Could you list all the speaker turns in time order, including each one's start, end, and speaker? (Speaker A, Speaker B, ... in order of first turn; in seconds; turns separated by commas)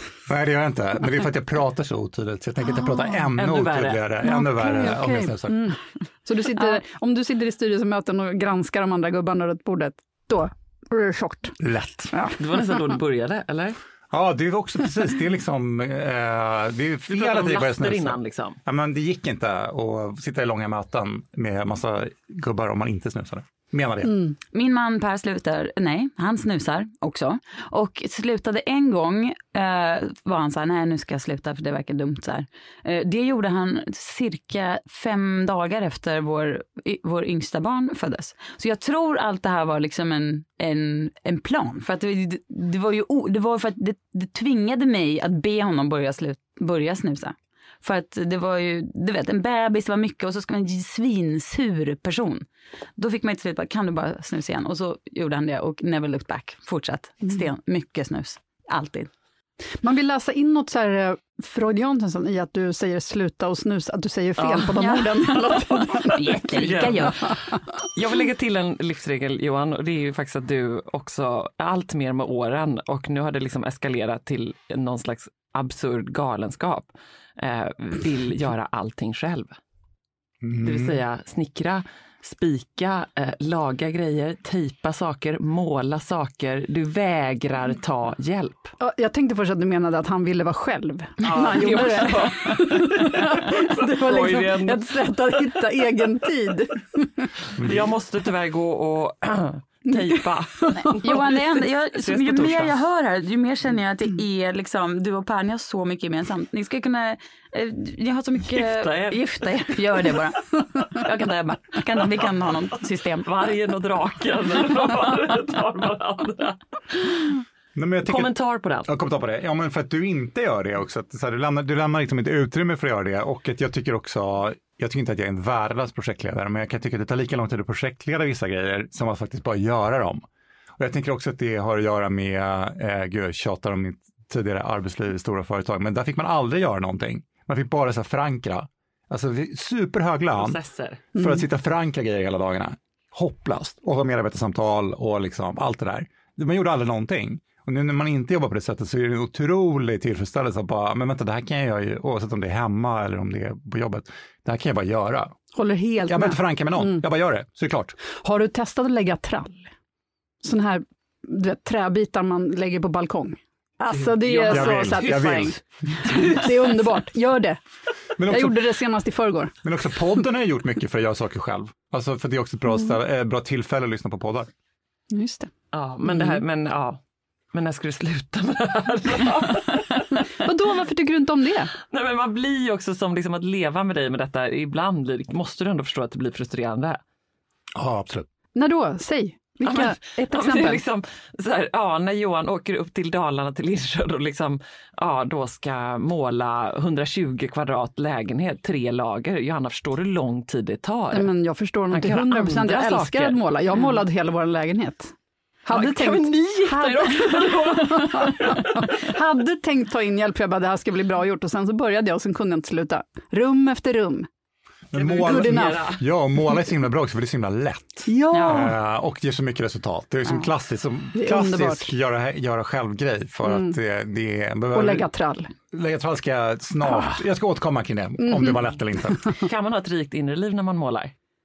Speaker A: 0.3-5.7, Speaker B: 2.8-3.1, Speaker C: 3.4-4.1, Speaker B: 4.2-11.6, Speaker D: 6.5-6.8, Speaker A: 11.6-12.3, Speaker B: 12.1-12.8, Speaker C: 12.4-13.8, Speaker A: 14.1-24.2, Speaker C: 17.1-18.6, Speaker B: 24.1-24.4, Speaker D: 24.5-52.5, Speaker D: 53.0-59.1, Speaker B: 59.8-66.4, Speaker C: 64.4-64.8, Speaker D: 64.8-67.2, Speaker C: 66.5-67.3, Speaker C: 67.9-79.5, Speaker A: 80.4-81.0, Speaker C: 80.6-88.7, Speaker B: 88.8-97.3, Speaker C: 91.2-95.8, Speaker D: 91.2-92.3, Speaker C: 97.6-102.8, Speaker A: 97.6-97.9, Speaker B: 99.9-100.9, Speaker D: 101.0-113.3, Speaker C: 108.5-110.2, Speaker C: 113.3-117.3, Speaker A: 117.8-130.2, Speaker C: 118.1-118.9, Speaker A: 130.8-140.6, Speaker C: 140.4-141.0, Speaker A: 141.2-155.4, Speaker B: 141.2-141.4, Speaker B: 155.5-157.1, Speaker A: 156.1-158.0, Speaker B: 158.2-159.7, Speaker B: 160.4-167.6, Speaker C: 163.9-167.0, Speaker A: 164.5-166.2, Speaker A: 168.2-168.6, Speaker B: 168.3-169.6, Speaker A: 169.6-174.5, Speaker B: 175.1-175.5, Speaker C: 175.7-177.0, Speaker B: 176.0-176.4, Speaker C: 177.5-180.2, Speaker B: 180.4-181.7, Speaker C: 181.9-187.0, Speaker A: 187.8-188.3, Speaker B: 188.6-190.8, Speaker C: 189.6-201.3, Speaker B: 201.1-205.1, Speaker C: 201.9-203.8, Speaker B: 205.7-214.3, Speaker C: 205.7-209.1, Speaker A: 214.9-225.1, Speaker C: 214.9-216.0, Speaker B: 215.1-216.0, Speaker B: 218.1-218.7, Speaker D: 218.3-218.7, Speaker B: 221.2-221.9, Speaker B: 223.4-223.8, Speaker B: 224.7-225.5, Speaker A: 225.7-229.3, Speaker B: 226.8-227.2, Speaker B: 228.2-228.7, Speaker C: 229.4-231.1